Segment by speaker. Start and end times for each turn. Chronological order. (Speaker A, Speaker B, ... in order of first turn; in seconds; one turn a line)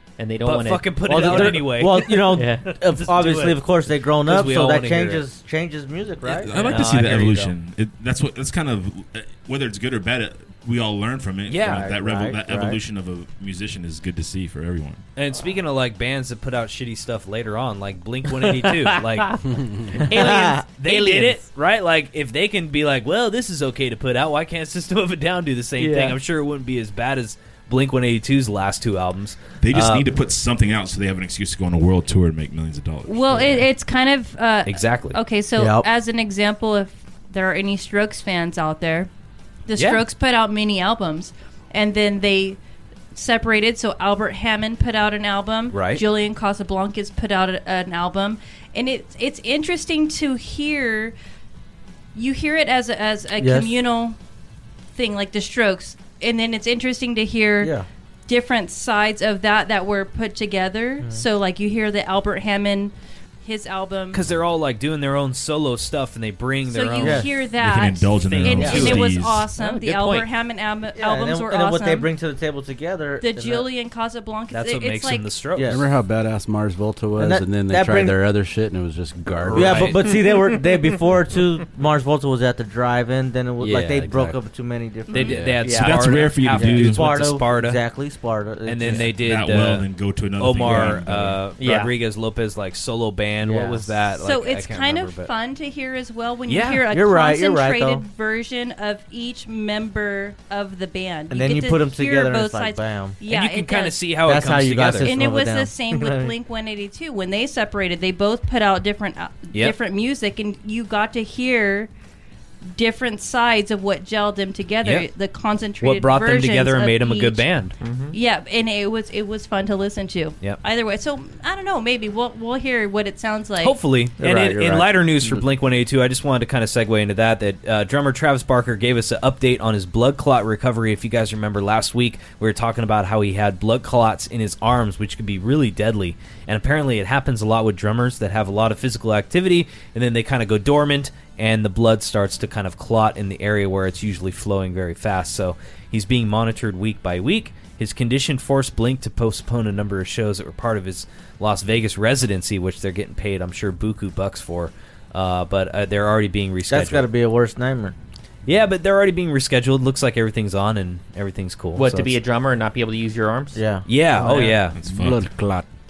Speaker A: 0.2-1.7
Speaker B: 0.4-3.6
Speaker C: 1.1-6.9
Speaker A: 2.3-2.7
Speaker B: 4.2-5.2
Speaker D: 6.2-15.0
Speaker B: 6.6-7.5
Speaker B: 11.5-11.9
Speaker C: 11.6-12.8
Speaker B: 15.2-30.1
Speaker A: 18.3-21.5
Speaker C: 20.1-20.6
Speaker A: 25.8-26.2
Speaker D: 29.6-33.6
Speaker E: 33.1-39.1
Speaker B: 34.7-35.2
Speaker C: 35.6-35.9
Speaker E: 39.7-42.6
Speaker B: 39.8-40.0
Speaker E: 43.1-51.1
Speaker B: 45.7-46.0
Speaker E: 52.1-54.2
Speaker C: 53.4-53.7
Speaker E: 55.0-57.7
Speaker C: 57.6-57.9
Speaker E: 58.3-64.2
Speaker B: 64.1-67.3
Speaker E: 66.7-72.1
Speaker C: 67.0-67.3
Speaker D: 67.5-69.5
Speaker C: 68.4-68.9
Speaker B: 68.5-69.1
Speaker A: 69.6-70.3
Speaker C: 71.0-73.7
Speaker E: 73.2-75.4
Speaker B: 74.5-75.8
Speaker C: 75.5-75.8
Speaker F: 75.7-80.0
Speaker C: 77.2-78.2
Speaker C: 79.5-89.1
Speaker B: 79.5-80.1
Speaker F: 83.6-84.4
Speaker E: 85.1-85.4
Speaker B: 85.1-87.8
Speaker F: 85.2-85.6
Speaker A: 85.6-86.0
Speaker D: 85.7-87.2
Speaker B: 88.7-89.9
Speaker D: 89.0-91.4
Speaker B: 90.4-95.3
Speaker C: 90.7-91.0
Speaker A: 91.6-91.9
Speaker C: 93.4-93.9
Speaker E: 94.2-104.1
Speaker B: 96.5-96.9
Speaker C: 96.9-98.0
Speaker C: 101.3-103.2
Speaker B: 103.2-105.1
Speaker C: 104.2-106.3
Speaker E: 105.0-111.9
Speaker E: 112.7-117.5
Speaker B: 115.8-117.8
Speaker A: 117.8-118.2
Speaker E: 118.1-123.8
Speaker B: 123.6-157.1
Speaker C: 124.2-124.9
Speaker C: 156.7-157.9
Speaker B: 158.5-162.2
Speaker A: 161.8-163.6
Speaker C: 163.6-164.5
Speaker B: 163.9-164.8
Speaker A: 164.2-164.6
Speaker D: 164.7-165.3
Speaker F: 164.8-165.7